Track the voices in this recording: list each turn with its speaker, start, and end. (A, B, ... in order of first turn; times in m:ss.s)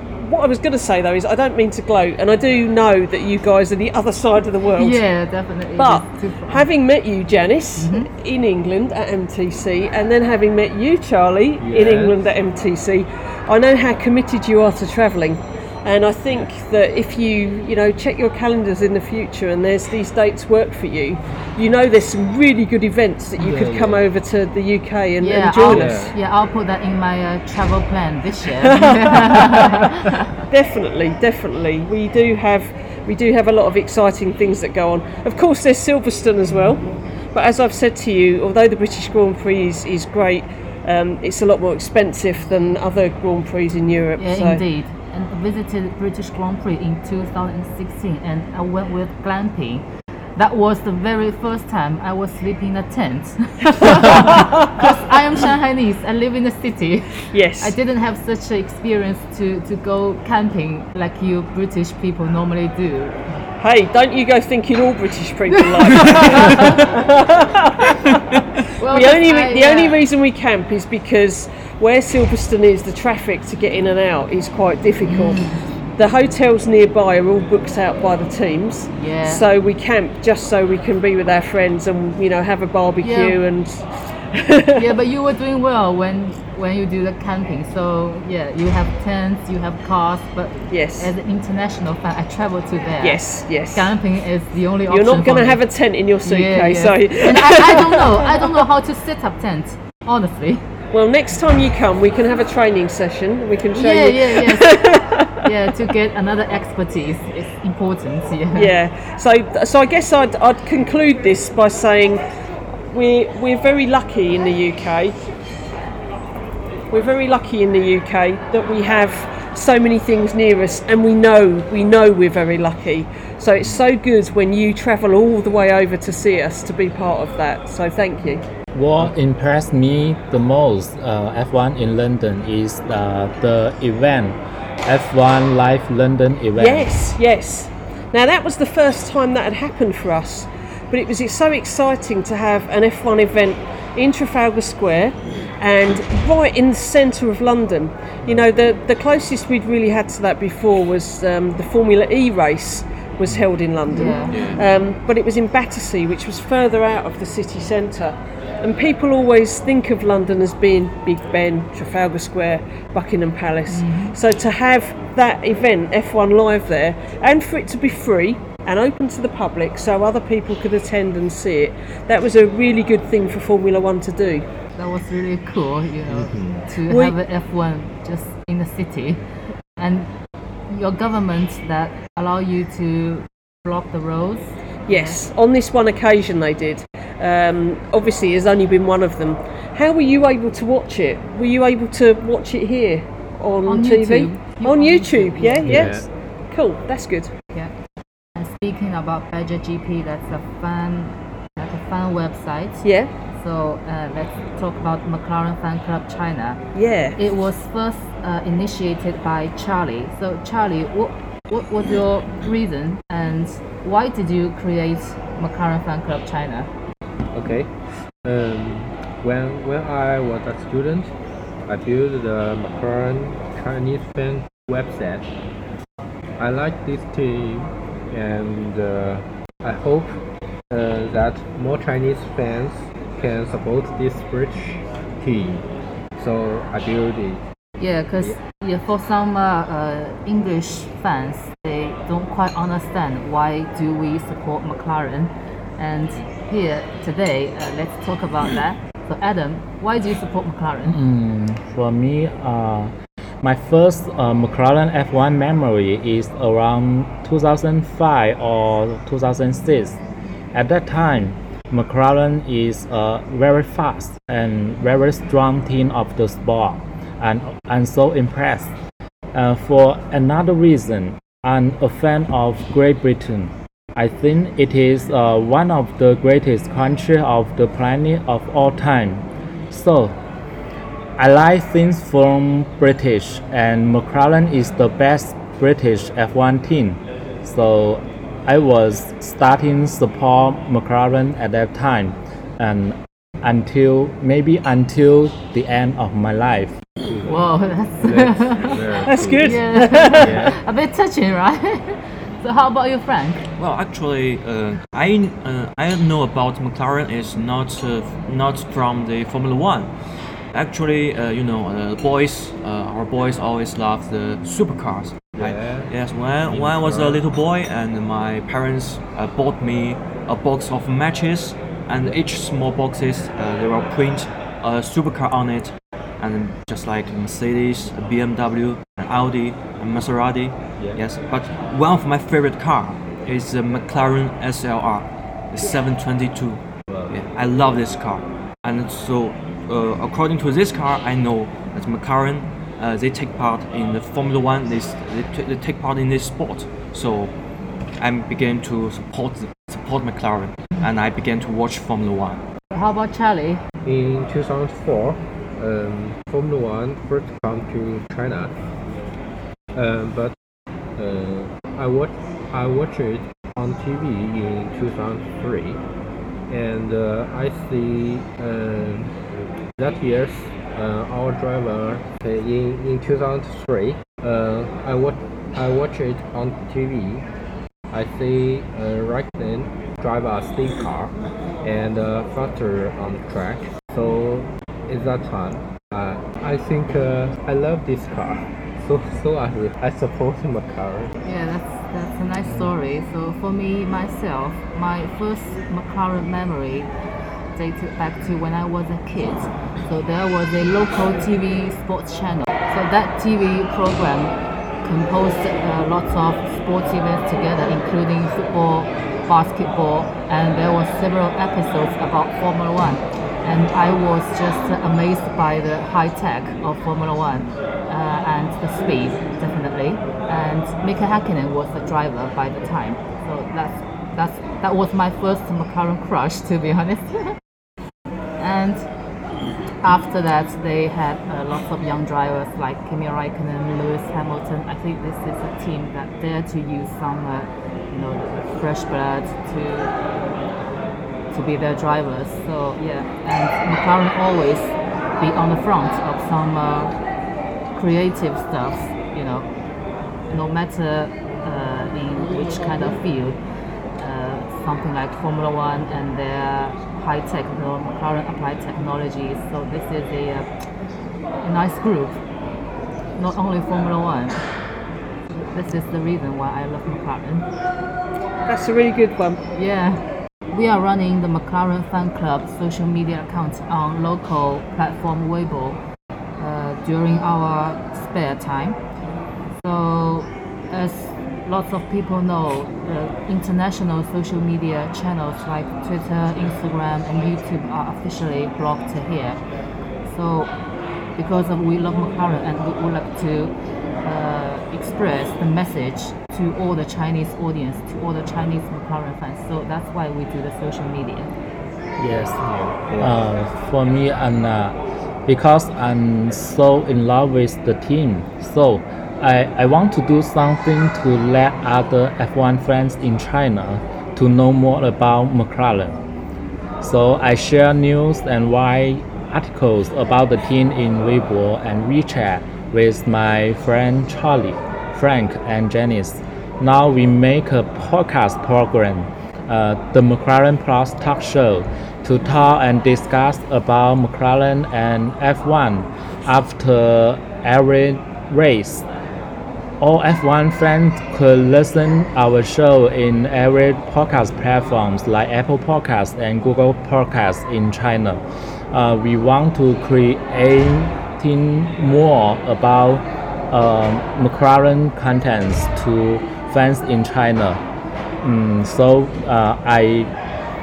0:00.2-0:05.0 A
0:04.8-0:06.7 B
0:05.8-0:25.9 A
0:07.8-0:08.1 B
0:11.6-0:12.2 C
0:23.4-0:24.0 C
0:25.2-0:30.3 B
0:25.7-0:26.2 C
0:28.6-0:29.8 A
0:30.5-0:44.6 A
0:44.2-0:49.8 B
0:50.4-1:03.2 B
0:53.8-0:54.8 A
0:57.3-0:57.8 A
1:03.6-1:08.2 A
1:05.5-1:06.9 B
1:08.8-1:10.0 B
1:08.8-1:24.9 A
1:15.0-1:15.7 B
1:18.9-1:19.4 B
1:23.0-1:23.4 B
1:24.8-1:33.2 B
1:30.7-1:31.1 A
1:33.0-1:33.9 A
1:33.7-1:35.6 B
1:34.9-1:38.5 A
1:36.2-1:40.6 B
1:40.9-1:45.4 A
1:43.8-1:48.7 B
1:48.6-1:52.2 A
1:52.9-1:55.2 A
1:56.9-2:08.4 A
2:08.7-2:16.9 D
2:16.6-2:54.5 A
2:33.9-2:34.6 B
2:34.3-2:34.6 E
2:43.7-2:44.2 B
2:54.8-2:59.2 B
2:56.1-2:56.7 C
2:56.9-2:57.2 A
2:59.8-3:00.1 B
3:00.7-3:05.2 B
3:04.9-3:17.3 A
3:13.7-3:16.0 B
3:15.6-3:16.1 C
3:18.4-3:26.6 B
3:22.8-3:23.1 A
3:26.8-3:27.2 A
3:27.2-3:36.7 B
3:37.3-3:41.1 C
3:41.7-3:45.3 C
3:46.4-3:50.2 C
3:50.7-3:55.6 C
3:56.2-3:57.4 C
3:57.8-4:11.0 B
4:10.8-4:20.0 D
4:20.5-4:28.7 D
4:29.3-4:40.2 D
4:41.2-4:56.8 D
4:57.1-4:57.4 C
4:57.2-5:03.4 B
4:58.0-5:00.6 C
4:59.1-5:00.4 A
5:03.6-5:09.9 E
5:10.5-5:47.3 E
5:15.4-5:15.9 C
5:16.5-5:17.2 C
5:36.9-5:37.2 C
5:48.0-5:52.4 E
5:52.7-5:53.6 B
5:53.8-5:58.6 C
5:59.7-6:00.4 C
6:01.0-6:05.8 C
6:06.5-6:09.1 C
6:09.8-6:17.2 C
6:17.9-6:31.1 C
6:31.2-6:36.9 B
6:32.5-6:32.7 C
6:37.6-7:07.4 B
7:08.4-7:08.9 B
7:09.8-7:20.0 B
7:21.3-7:26.9 B
7:27.7-7:29.5 B
7:30.3-7:33.4 B
7:34.0-7:40.5 B
7:41.4-7:42.2 B
7:43.2-7:44.4 B
7:45.5-7:47.5 B
7:48.5-7:49.4 A
7:49.5-7:55.8 B
7:56.4-7:58.8 B
7:59.6-8:09.4 B
8:10.0-8:10.5 B
8:11.2-8:21.3 B
8:22.0-8:22.4 D
8:22.4-8:23.2 C
8:23.0-8:36.0 D
8:36.8-8:58.9 D
8:59.8-9:17.6 D
9:18.2-9:20.1 D